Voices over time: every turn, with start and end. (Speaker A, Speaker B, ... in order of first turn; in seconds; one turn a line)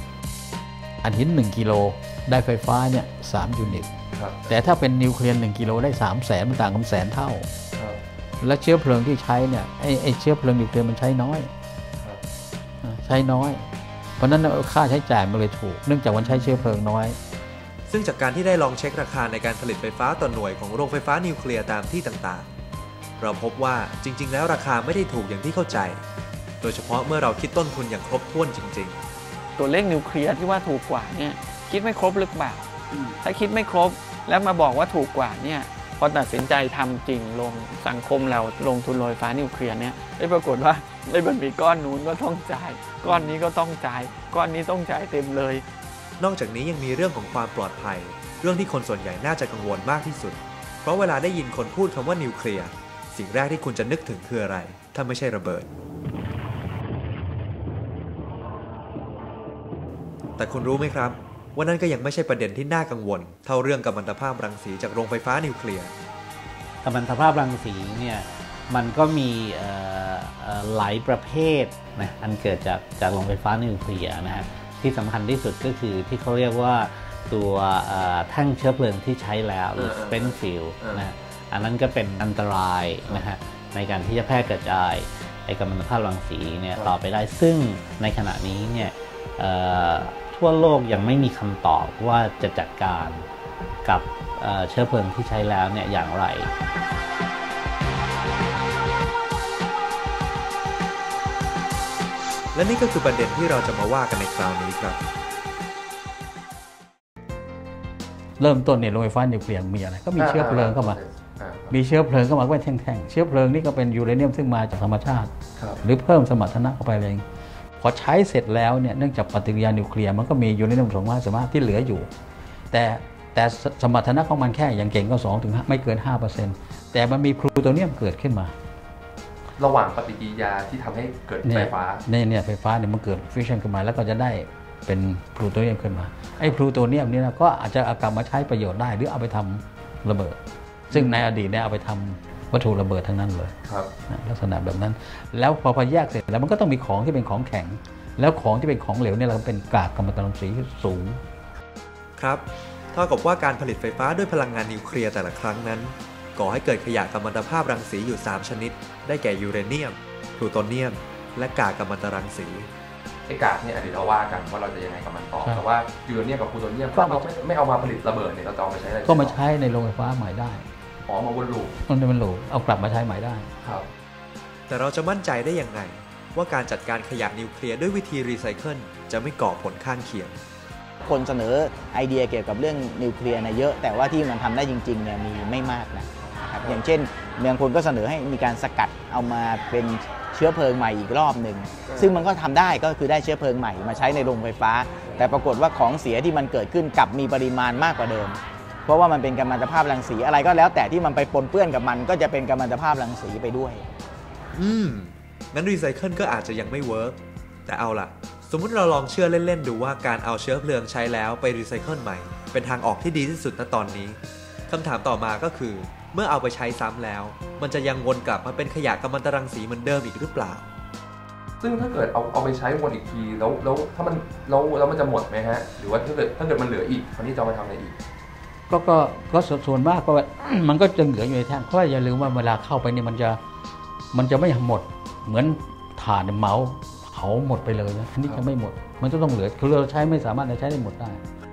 Speaker A: 1.0-3.9
Speaker B: 3.7-4.5
Speaker A: 4.5-7.5
Speaker B: 7.8-8.0
Speaker A: 8.4-11.5
Speaker A: 12.8-13.7
Speaker A: 14.2-17.2
Speaker B: 16.2-16.8
Speaker C: 17.9-22.5
Speaker C: 23.2-26.0
Speaker C: 26.6-29.0
Speaker D: 29.6-45.7
Speaker C: 46.2-55.7
Speaker C: 60.4-65.9
Speaker E: 66.8-93.3
Speaker B: 79.8-81.1
Speaker E: 93.8-96.5
Speaker C: 102.5-105.0
Speaker A: 108.4-111.0
Speaker B: 110.2-111.7
Speaker A: 111.7-115.3
Speaker A: 115.8-117.2
Speaker A: 117.8-122.1
Speaker A: 122.7-128.5
Speaker B: 129.6-132.0
Speaker A: 131.4-140.4
Speaker B: 140.9-141.2
Speaker A: 140.9-143.5
Speaker A: 144.1-151.2
Speaker C: 152.2-162.7
Speaker B: 163.3-169.4
Speaker A: 167.0-167.2
Speaker A: 169.1-170.7
Speaker B: 171.1-171.8
Speaker A: 171.9-173.5
Speaker B: 173.6-173.9
Speaker C: 174.7-180.4
Speaker F: 181.1-203.8
Speaker B: 191.8-192.2
Speaker C: 204.6-220.7
Speaker B: 221.6-228.0
Speaker A: 228.7-233.4
Speaker A: 234.1-241.2